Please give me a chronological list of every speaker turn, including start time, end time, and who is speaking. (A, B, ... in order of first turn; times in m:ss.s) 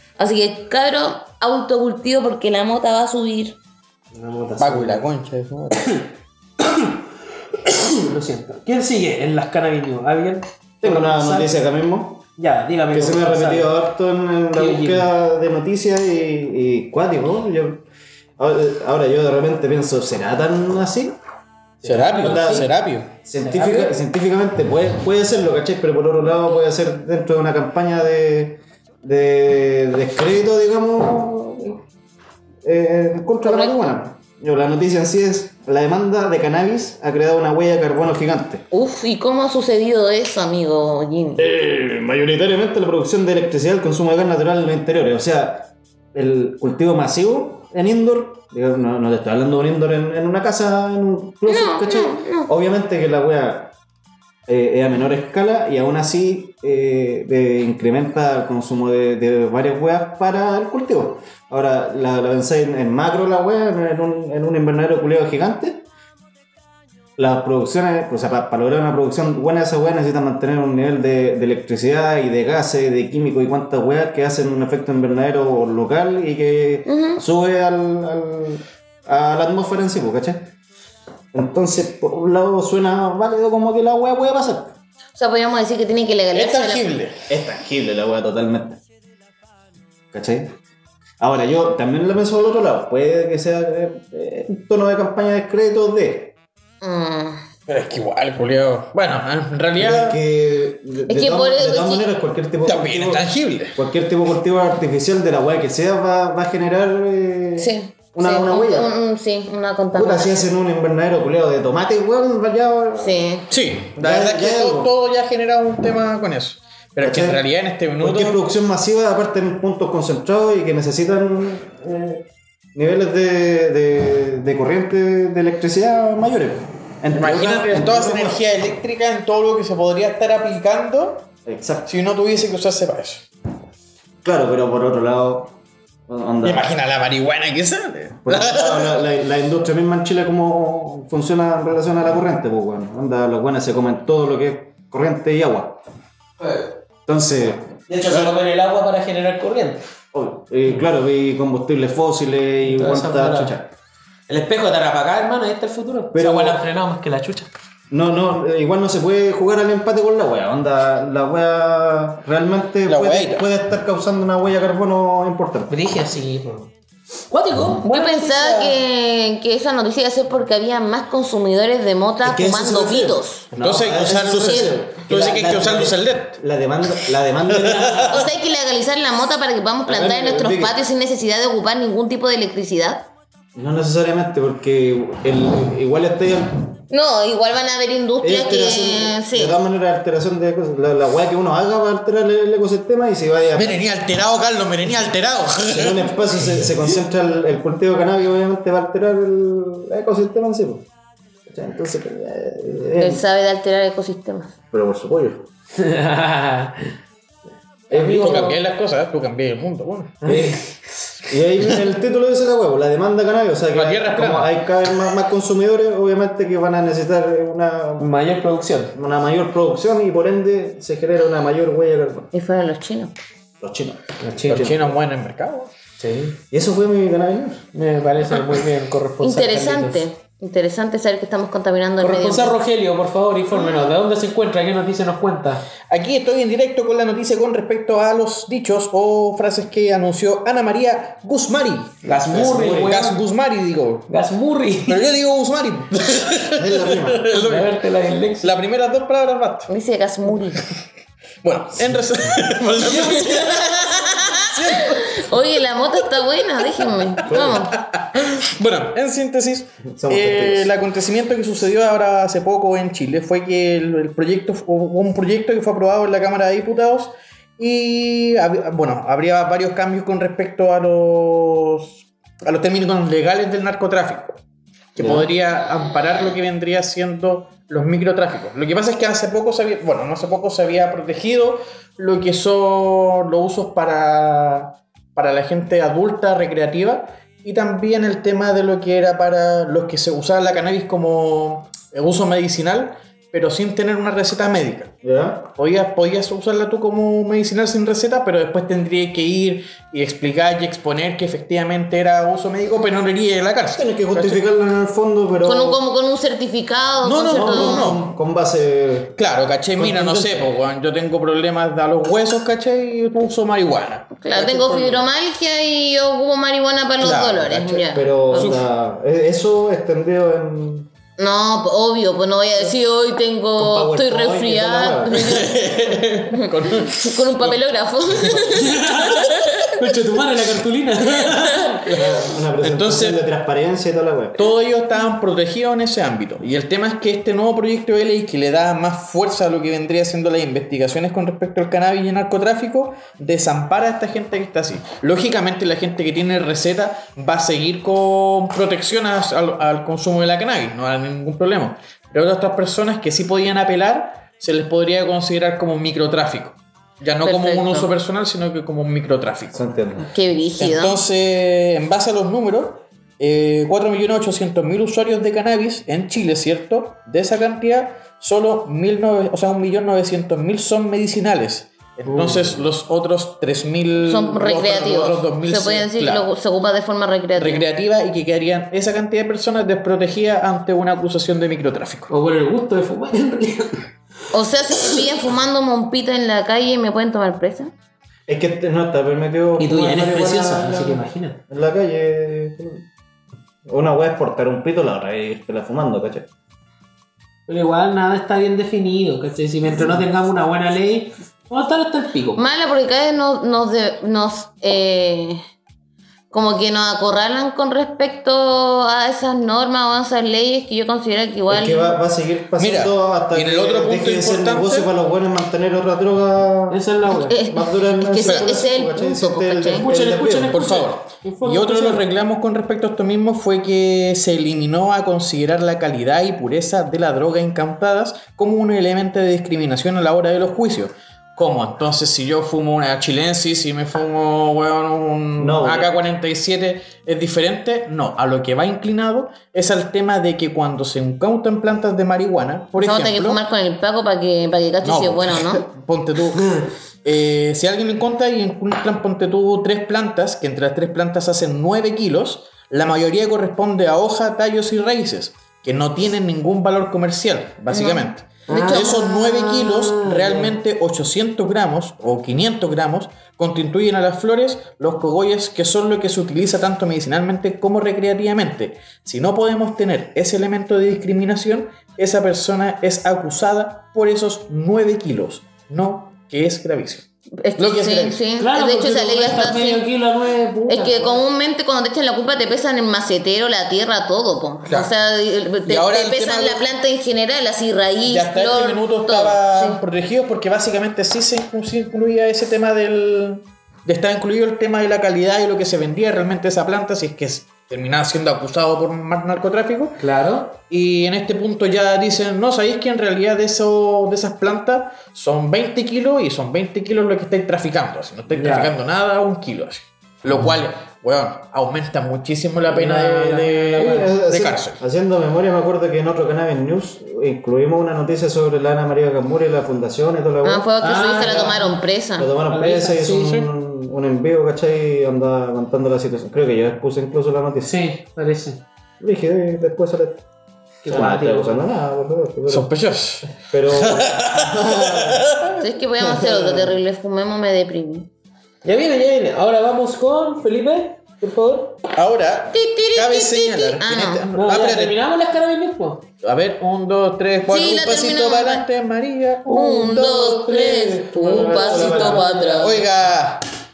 0:00.2-0:03.6 A
0:04.1-0:05.0 B
0:04.6-0:06.0 C
0:06.6-0:07.0 B
0:07.6-0:11.5 B
0:10.8-0:12.2 D
0:12.4-0:13.8 B
0:12.9-0:17.8 D
0:14.5-0:15.1 B
0:18.4-0:21.2 D
0:21.8-0:22.7 B
0:21.8-0:23.1 C
0:22.2-0:22.7 D
0:23.2-0:31.8 D
0:23.4-0:24.0 B
0:32.6-0:38.6 D
0:33.4-0:33.9 A
0:38.7-0:41.5 A
0:41.4-0:53.7 D
0:51.5-0:52.5 A
0:54.5-1:05.9 D
1:07.2-1:20.5 D
1:16.8-1:17.2 A
1:21.3-1:24.8 D
1:25.2-1:27.0 A
1:26.3-1:27.2 C
1:27.3-1:28.8 D
1:30.1-1:30.5 D
1:31.2-1:36.3 D
1:36.8-1:37.4 A
1:37.7-1:40.2 C
1:39.8-1:48.9 D
1:41.1-1:42.0 A
1:42.6-1:43.8 C
1:47.6-1:50.4 A
1:49.9-1:53.2 D
1:53.0-1:53.4 A
1:53.5-1:58.4 C
1:54.0-1:54.9 D
1:57.0-1:57.4 D
1:58.0-2:08.4 D
2:07.1-2:11.3 C
2:11.4-2:11.9 D
2:11.9-2:13.3 C
2:14.2-2:15.6 D
2:16.1-2:16.7 D
2:16.4-2:19.0 C
2:18.2-2:25.8 D
2:27.0-2:28.3 D
2:27.9-2:29.8 B
2:30.1-2:33.7 D
2:32.7-2:33.5 B
2:34.3-2:37.5 B
2:36.1-2:36.6 D
2:37.9-2:45.7 D
2:42.9-2:43.5 C
2:45.7-2:46.7 B
2:47.3-2:48.8 B
2:47.8-2:53.4 A
2:52.2-2:58.1 D
2:53.6-2:56.4 C
2:57.5-2:58.2 C
2:58.1-3:03.1 A
2:59.8-3:00.8 D
3:03.5-3:06.7 D
3:06.9-3:09.5 A
3:08.2-3:13.9 D
3:13.5-3:16.2 C
3:15.7-3:20.8 D
3:21.5-3:23.2 D
3:23.0-3:24.5 A
3:24.7-3:25.4 D
3:25.8-3:26.9 B
3:27.9-3:28.5 D
3:27.9-3:28.6 B
3:28.2-3:30.2 C
3:30.2-3:30.6 D
3:30.2-3:30.7 B
3:31.3-3:38.1 D
3:33.7-3:34.5 C
3:38.0-3:38.9 B
3:38.9-3:42.3 D
3:42.3-3:43.1 A
3:43.6-3:44.9 D
3:44.2-3:44.7 B
3:44.5-3:45.7 C
3:46.0-3:46.4 B
3:46.5-3:47.6 D
3:47.7-3:50.0 B
3:49.2-3:52.5 A
3:52.0-3:55.6 B
3:53.5-3:53.9 A
3:55.9-4:04.1 C
4:02.0-4:03.1 B
4:02.1-4:03.2 D
4:04.1-4:05.0 B
4:04.8-4:07.8 C
4:06.6-4:07.2 D
4:07.3-4:08.5 B
4:08.4-4:09.7 C
4:09.7-4:10.7 A
4:11.4-4:15.3 C
4:12.8-4:13.5 B
4:14.8-4:17.7 A
4:17.2-4:17.7 D
4:17.3-4:34.4 C
4:19.8-4:20.7 D
4:35.0-4:54.9 C
4:35.0-4:35.3 D
4:55.0-4:55.5 D
4:55.6-5:04.4 C
5:03.7-5:05.8 D
5:05.4-5:07.9 A
5:07.0-5:08.0 C
5:07.3-5:09.2 D
5:09.2-5:15.1 C
5:09.8-5:10.5 D
5:14.2-5:18.5 A
5:17.0-5:18.6 C
5:17.9-5:20.9 D
5:21.2-5:29.1 A
5:23.6-5:25.5 D
5:25.1-5:27.6 C
5:28.3-5:28.6 D
5:28.6-5:31.8 B
5:31.8-5:34.4 D
5:32.6-5:33.2 C
5:34.4-5:59.6 C
5:57.2-5:57.9 A
5:59.5-6:00.1 D
6:00.1-6:01.0 A
6:00.6-6:16.2 C
6:12.1-6:12.6 D
6:14.0-6:17.6 A
6:17.4-6:22.1 C
6:22.1-6:23.8 B
6:24.3-6:27.7 A
6:28.3-6:32.8 D
6:29.6-6:31.4 B
6:33.6-6:36.3 D
6:37.5-6:42.4 B
6:42.4-6:45.4 A
6:46.3-6:52.0 A
6:51.5-6:56.8 D
6:52.6-6:54.9 C
6:56.7-6:57.4 B
6:57.3-6:59.8 A
6:57.4-7:00.6 D
6:58.2-6:58.6 C
6:59.7-7:02.0 B
7:00.3-7:23.4 C
7:15.4-7:15.9 D
7:22.8-7:25.6 A
7:24.8-7:57.0 C
7:37.7-7:39.7 A
7:38.5-7:38.9 B
7:39.6-7:40.5 B
7:57.4-7:59.8 A
7:57.6-7:58.2 C
7:58.4-8:01.2 B
8:00.7-8:09.8 A
8:04.6-8:04.9 C
8:05.6-8:06.6 C
8:08.0-8:20.0 C
8:20.0-8:20.5 B
8:20.6-8:34.8 C
8:28.3-8:28.7 B
8:32.7-8:34.1 B
8:33.7-8:41.5 D
8:40.4-8:42.3 A
8:40.8-8:41.7 B
8:42.2-8:47.8 D
8:42.5-8:43.4 B
8:47.6-8:48.6 B
8:49.0-8:50.2 D
8:50.8-8:51.7 B
8:50.8-8:52.7 D
8:52.5-8:55.6 C
8:53.4-8:55.2 D
8:55.6-8:58.1 A
8:56.0-8:56.8 D
8:58.6-9:01.8 B
9:01.9-9:05.0 C
9:02.5-9:04.3 A
9:04.3-9:06.0 B
9:06.2-9:10.8 C
9:07.5-9:08.6 A
9:09.5-9:12.8 A
9:09.8-9:10.2 B
9:10.8-9:12.9 B
9:11.1-9:12.3 D
9:11.4-9:13.4 C